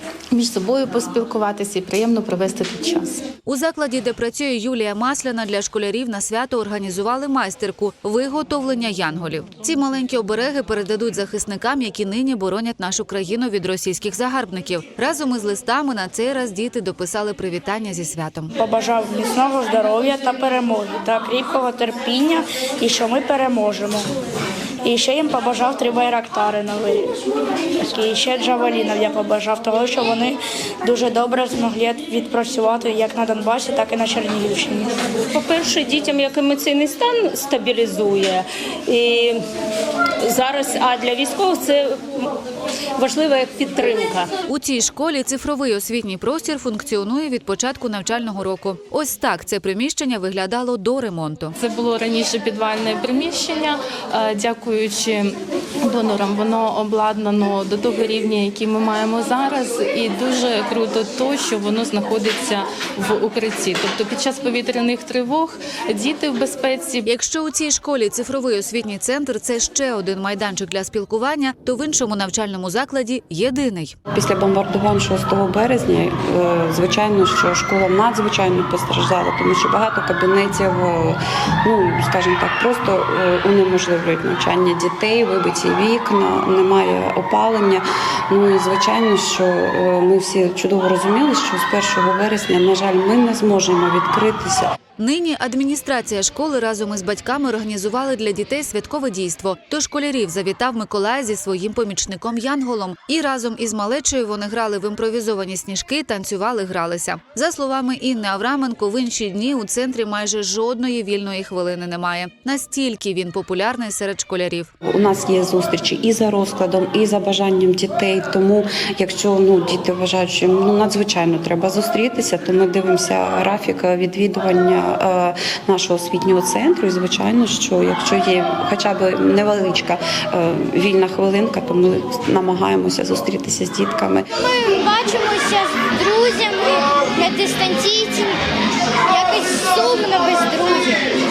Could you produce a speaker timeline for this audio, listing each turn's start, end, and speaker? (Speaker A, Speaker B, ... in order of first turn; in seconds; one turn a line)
Speaker A: 0.3-3.2
Speaker B: 3.4-18.5
Speaker C: 18.6-24.0
Speaker C: 24.8-27.1
Speaker C: 27.8-34.9
Speaker D: 35.3-39.4
Speaker D: 40.2-42.3
Speaker D: 42.9-44.3
Speaker B: 44.5-51.5
Speaker A: 51.6-67.0
Speaker B: 67.0-73.9
Speaker E: 74.1-94.7
Speaker B: 95.0-114.7
Speaker E: 114.9-134.3
Speaker F: 134.4-138.4
Speaker F: 139.1-141.0